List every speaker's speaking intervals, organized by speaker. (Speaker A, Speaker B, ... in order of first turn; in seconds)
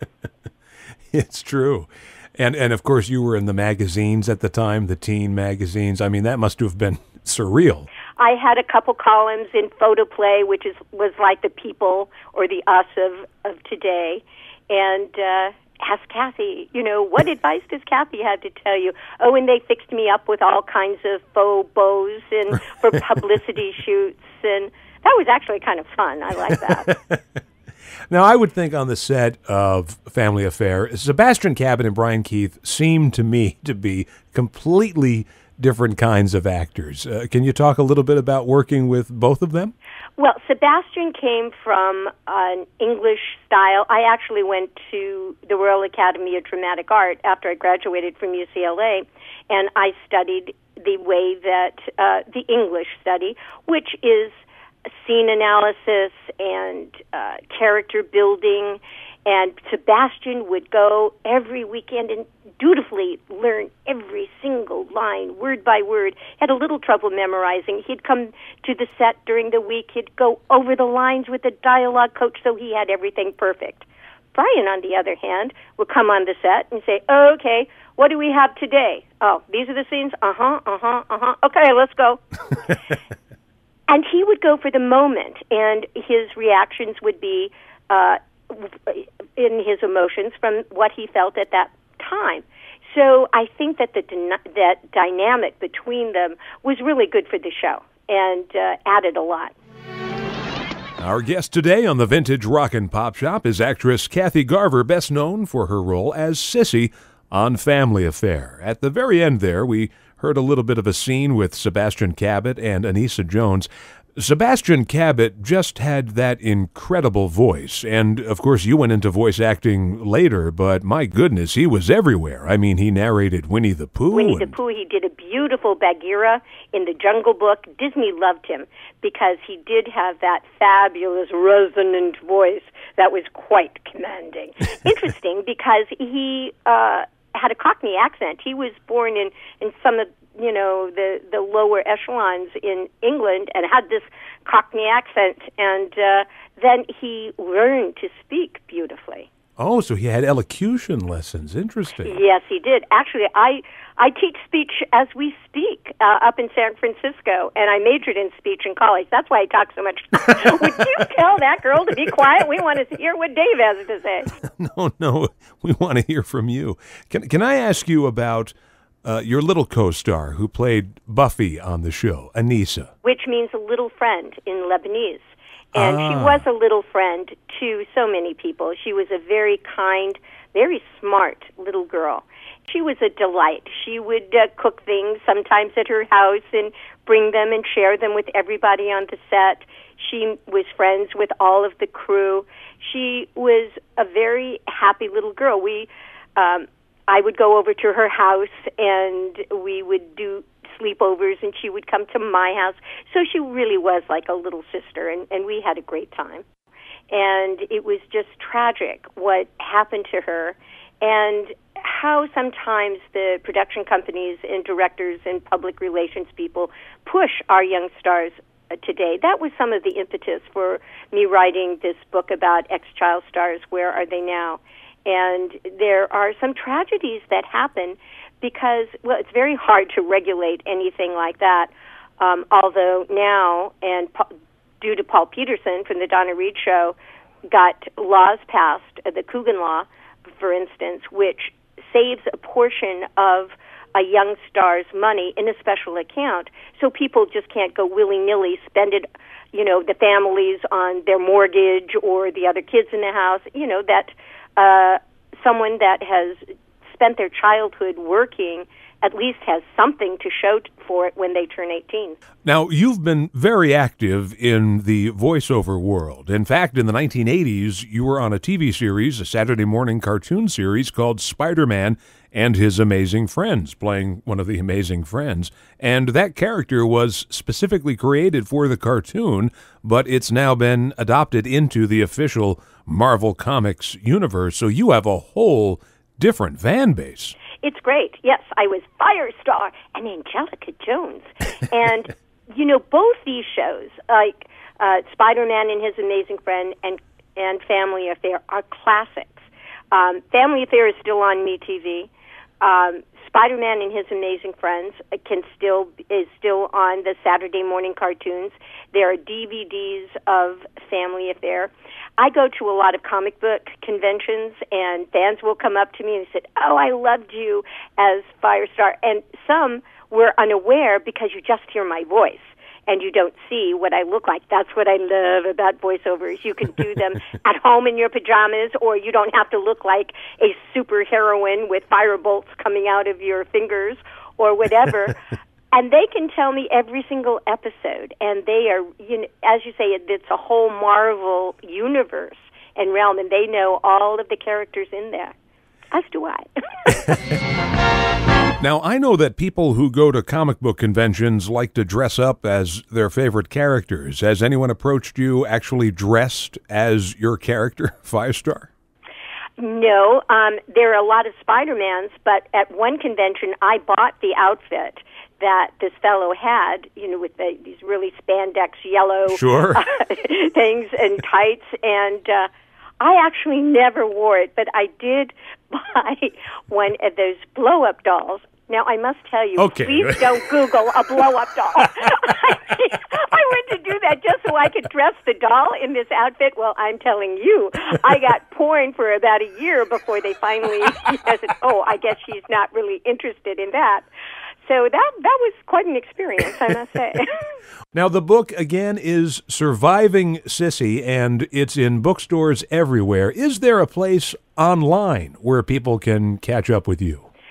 Speaker A: 1.1-7.9, 26.8-27.2, 28.1-39.7, 101.0-124.5, 149.6-152.2, 164.4-168.5, 169.0-172.9, 175.7-176.4, 262.4-287.4, 348.6-358.7, 369.3-369.8, 379.6-380.3, 397.9-407.3
Speaker B: 8.2-26.9, 40.2-82.2, 83.9-99.5, 124.1-149.3, 152.0-164.3, 173.0-206.4, 207.1-234.3, 234.8-237.0, 237.5-262.2, 287.6-302.1, 302.6-335.2, 335.7-345.3, 345.9-347.1, 359.6-372.5, 373.0-394.1, 394.6-397.4